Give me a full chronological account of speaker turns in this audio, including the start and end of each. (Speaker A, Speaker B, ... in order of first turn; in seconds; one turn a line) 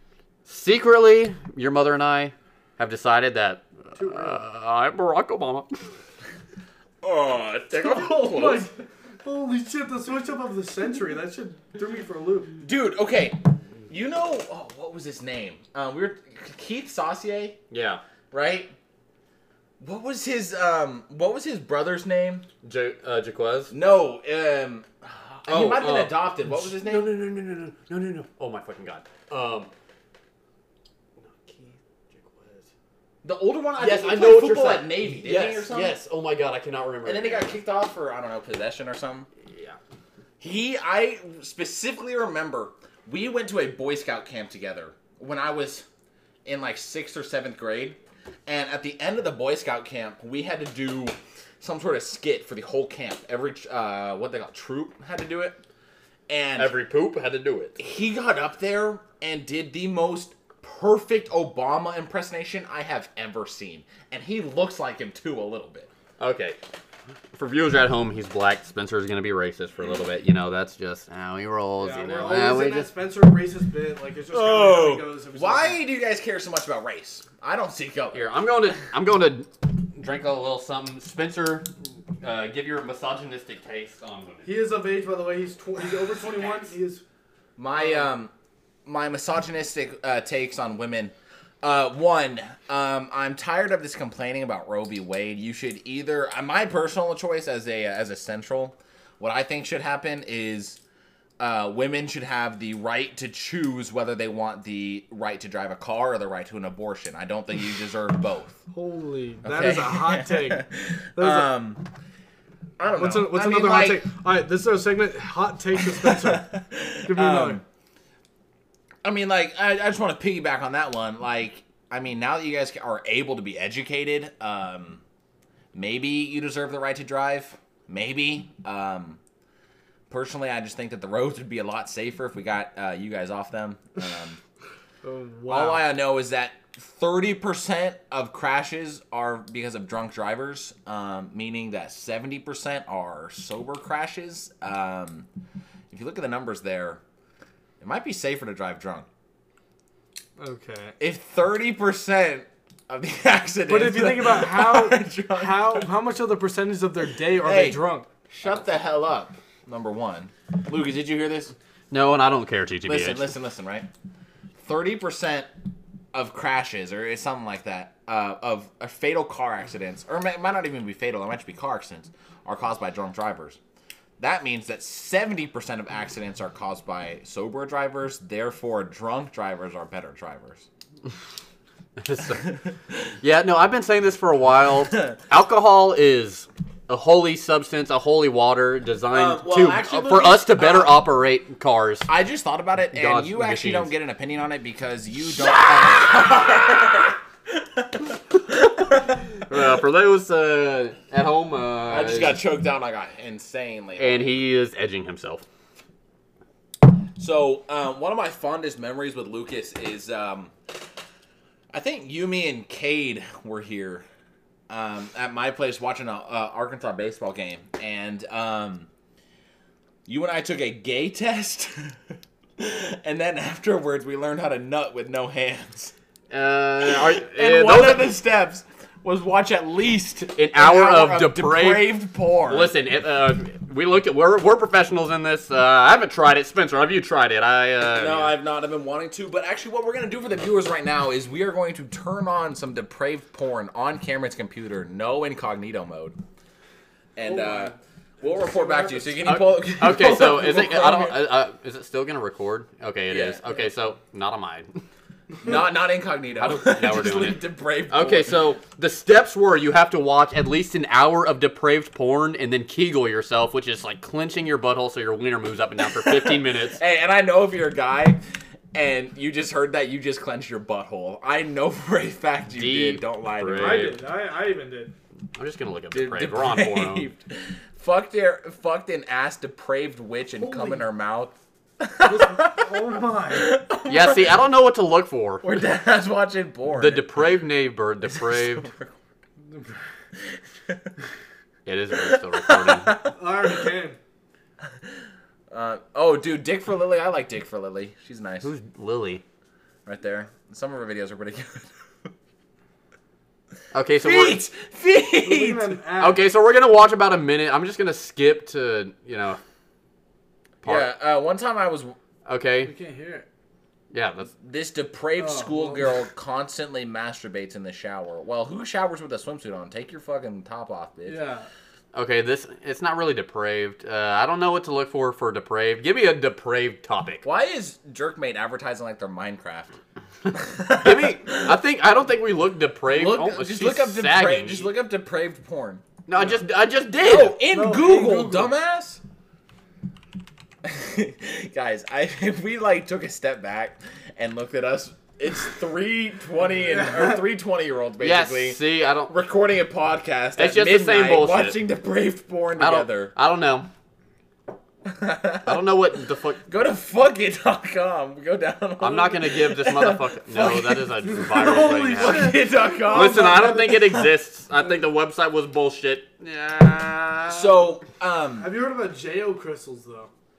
Speaker A: 0.5-5.7
Speaker B: 4.0-4.4
Speaker C: 7.0-8.7
Speaker B: 7.7-12.5
Speaker C: 12.6-17.6
Speaker A: 17.7-18.0
Speaker C: 18.3-18.7
Speaker C: 19.8-22.4
Speaker A: 22.6-23.7
Speaker C: 23.7-27.1
Speaker A: 25.4-29.7
Speaker A: 31.2-32.7
Speaker C: 33.2-35.9
Speaker A: 33.8-37.5
Speaker C: 37.0-39.3
Speaker A: 39.5-39.8
Speaker C: 40.4-45.9
Speaker C: 46.4-55.6
Speaker C: 56.3-56.7
Speaker A: 56.6-57.8
Speaker C: 57.8-65.9
Speaker A: 66.2-66.6
Speaker A: 67.3-72.9
Speaker B: 71.8-75.8
Speaker C: 74.3-78.3
Speaker A: 78.1-81.7
Speaker A: 82.2-84.5
Speaker B: 84.4-87.0
Speaker C: 87.6-88.3
Speaker C: 88.8-100.8
Speaker C: 101.4-108.6
Speaker B: 108.7-111.5
Speaker C: 109.4-111.9
Speaker C: 112.8-114.0
Speaker B: 112.9-116.5
Speaker C: 115.8-117.6
Speaker B: 117.0-117.6
Speaker C: 119.0-125.0
Speaker C: 125.7-129.2
Speaker C: 130.1-134.4
Speaker B: 135.0-135.9
Speaker C: 135.5-145.3
Speaker C: 145.9-147.0
Speaker C: 147.8-149.1
Speaker B: 150.4-150.9
Speaker C: 151.0-155.9
Speaker B: 153.7-158.1
Speaker C: 157.3-161.5
Speaker A: 161.9-163.3
Speaker C: 162.8-163.9
Speaker C: 164.6-165.5
Speaker C: 166.1-173.6
Speaker C: 174.2-180.7
Speaker A: 182.0-182.6
Speaker A: 183.2-192.1
Speaker C: 189.1-191.0
Speaker C: 192.1-199.2
Speaker A: 192.9-193.9
Speaker A: 195.3-196.6
Speaker A: 198.9-202.4
Speaker C: 201.9-204.4
Speaker A: 204.0-205.4
Speaker C: 207.2-210.5
Speaker C: 211.7-214.0
Speaker C: 214.7-218.9
Speaker C: 220.1-221.9
Speaker C: 222.6-225.9
Speaker A: 226.3-228.1
Speaker C: 226.8-232.7
Speaker A: 230.3-238.3
Speaker C: 237.9-246.2
Speaker C: 247.1-251.2
Speaker B: 247.2-249.3
Speaker A: 249.2-254.8
Speaker C: 253.1-253.4
Speaker C: 255.4-258.4
Speaker A: 256.4-266.8
Speaker C: 266.0-268.2
Speaker C: 268.7-273.9
Speaker A: 272.5-274.0
Speaker B: 273.5-274.9
Speaker A: 275.4-277.1
Speaker C: 275.9-284.4
Speaker B: 280.4-280.8
Speaker B: 282.0-283.5
Speaker A: 283.9-285.6
Speaker C: 285.4-287.3
Speaker A: 286.7-288.7
Speaker C: 288.1-288.9
Speaker B: 289.4-289.8
Speaker C: 290.3-290.9
Speaker A: 291.6-293.0
Speaker C: 292.0-293.1
Speaker B: 293.1-294.0
Speaker C: 295.5-298.5
Speaker A: 298.4-299.2
Speaker C: 299.9-301.7
Speaker A: 303.7-304.4
Speaker C: 304.0-305.7
Speaker B: 305.2-306.2
Speaker A: 306.0-309.4
Speaker A: 310.6-310.9
Speaker C: 310.6-311.9
Speaker A: 312.2-312.7
Speaker B: 312.6-313.3
Speaker A: 313.9-314.3
Speaker C: 314.4-321.2
Speaker B: 315.2-316.0
Speaker B: 321.1-321.5
Speaker A: 321.9-327.2
Speaker C: 327.2-329.8
Speaker C: 330.3-331.5
Speaker A: 330.6-334.7
Speaker C: 332.9-335.9
Speaker A: 336.1-337.4
Speaker C: 337.0-339.0
Speaker B: 337.5-338.5
Speaker C: 340.6-353.1
Speaker A: 348.0-349.1
Speaker A: 350.4-351.6
Speaker A: 352.6-353.7
Speaker C: 354.9-355.7
Speaker A: 355.4-356.4
Speaker C: 356.4-364.1
Speaker A: 358.8-367.6
Speaker B: 361.0-363.9
Speaker C: 367.3-368.5
Speaker B: 368.4-370.1